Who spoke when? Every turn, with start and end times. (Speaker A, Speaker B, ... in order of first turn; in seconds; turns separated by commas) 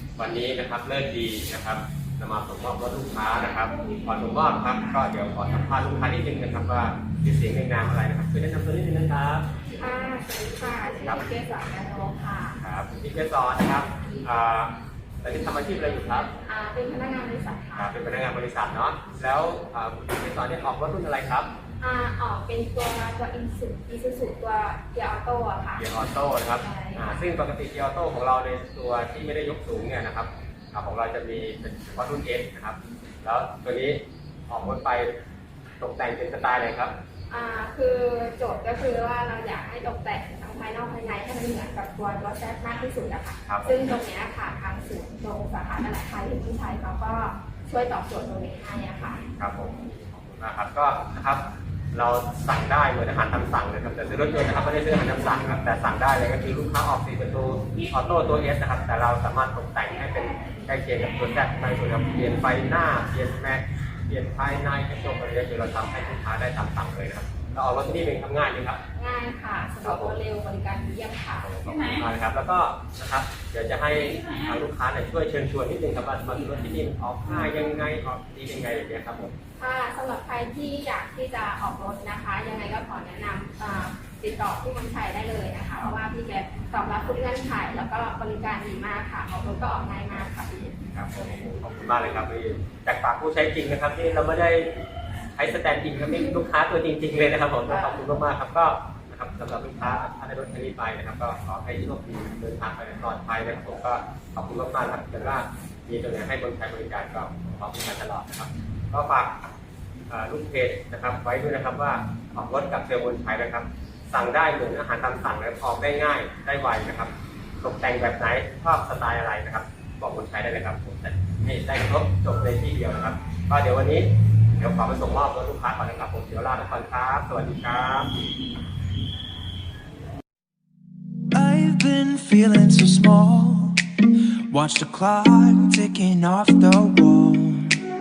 Speaker A: 0.2-9.5, Speaker B: 9.8-12.6, Speaker A: 12.6-16.3, Speaker B: 16.4-17.9, Speaker A: 17.8-21.5, Speaker B: 21.8-25.9, Speaker A: 25.8-35.1, Speaker B: 26.5-27.2, Speaker A: 35.8-36.9, Speaker B: 37.3-49.2, Speaker A: 43.5-43.8, Speaker A: 49.4-68.8, Speaker B: 68.9-71.5, Speaker A: 69.8-70.2, Speaker A: 71.4-79.3, Speaker B: 79.6-90.8, Speaker A: 90.9-94.7, Speaker A: 95.4-109.3, Speaker A: 110.1-128.1, Speaker C: 131.3-133.8, Speaker C: 134.5-137.9